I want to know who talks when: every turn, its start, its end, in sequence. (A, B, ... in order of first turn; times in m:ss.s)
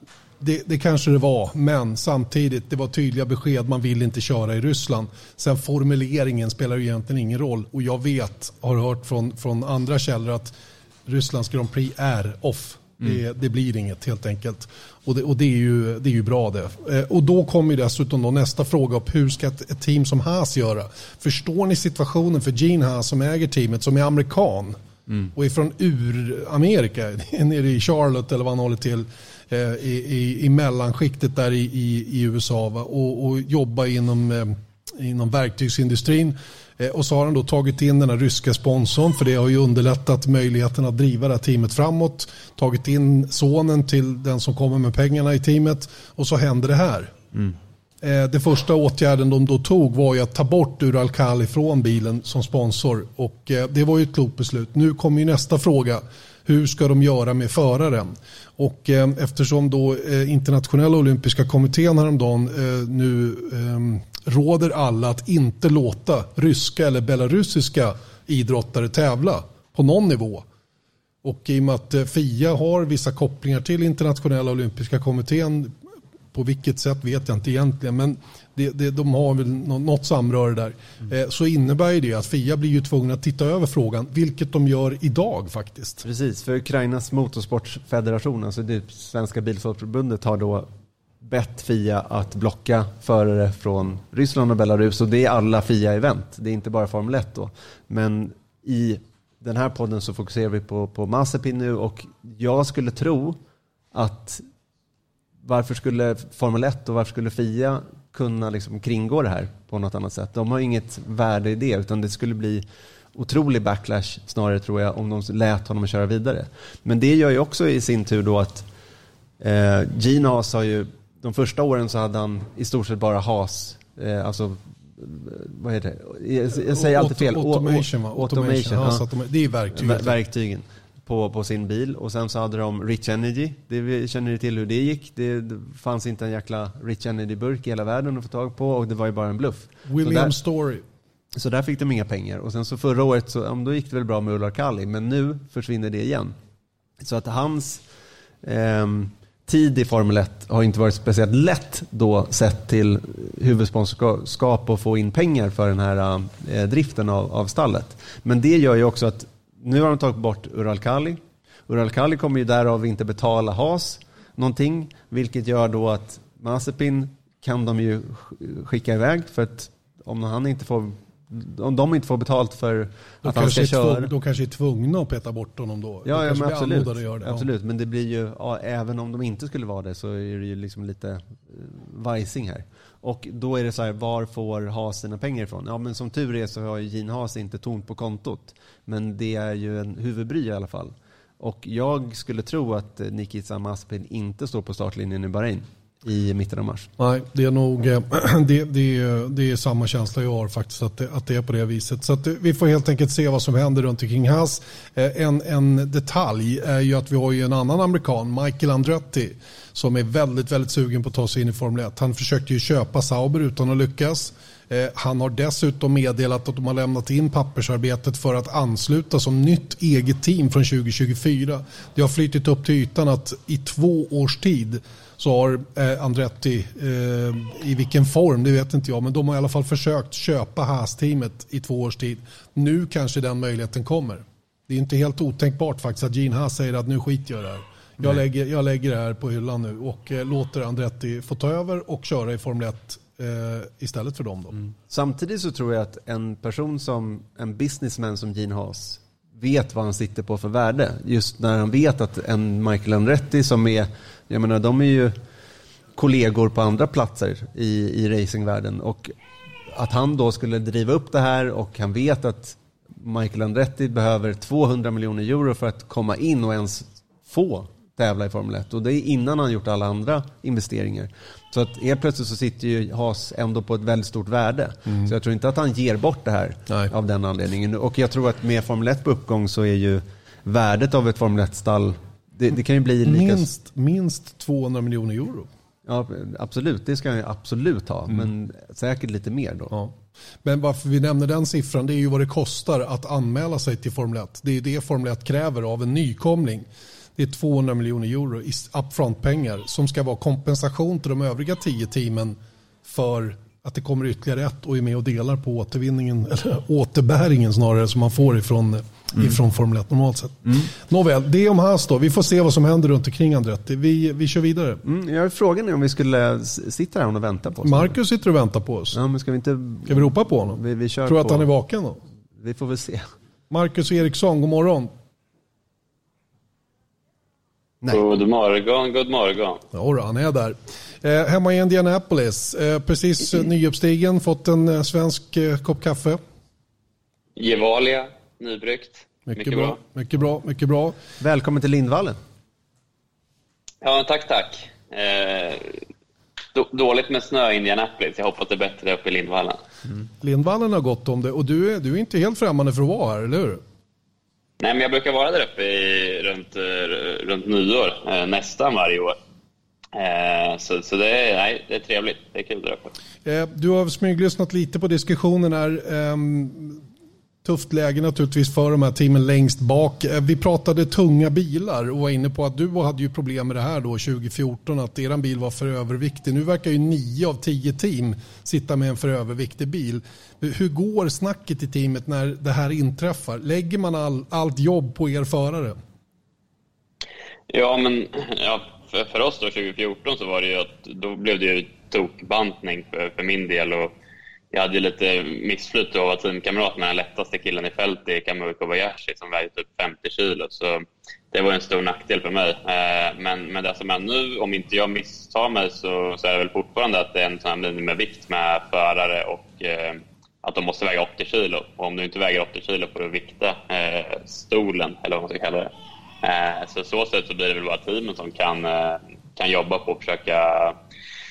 0:00.4-0:10.5 A
0:11.1-0:24.8 A
0:25.4-0:47.2 A
0:48.0-1:10.4 A
1:11.2-1:15.7 A
1:16.3-1:26.0 A
1:26.0-1:30.7 B
1:31.2-1:43.4 B
1:43.9-1:44.4 B
1:45.4-1:58.6 B
1:59.4-2:09.1 B
2:06.7-2:10.1 A
2:09.7-2:20.3 B
2:19.9-2:20.8 A
2:21.4-2:26.4 B
2:27.0-2:27.8 B
2:28.4-2:54.1 B
2:53.2-2:57.5 A
2:56.0-3:16.9 B
3:17.0-4:04.6 A
4:04.6-4:15.2 B
4:15.9-4:19.1 B
4:19.7-4:43.5 B
4:43.0-4:45.5 A
4:45.9-4:49.7 B
4:50.4-5:14.8 A
5:14.8-5:18.0 B
5:17.6-5:19.0 A
5:18.9-5:21.5 B
5:19.9-5:22.0 A
5:22.4-5:23.1 B
5:23.5-5:24.9 A
5:27.9-5:29.6 C
5:29.7-5:36.2 A
5:37.4-5:39.8 C
5:39.3-5:41.0 A
5:41.2-5:42.2 B
5:43.8-5:45.8 C
5:46.6-5:49.6 C
5:50.2-5:53.6 A
5:54.6-5:59.2 C
5:59.9-6:02.9 C
6:03.2-6:06.8 A
6:07.4-6:25.8 A
6:27.5-6:33.9 C
6:34.5-6:55.7 C
6:56.2-7:00.8 C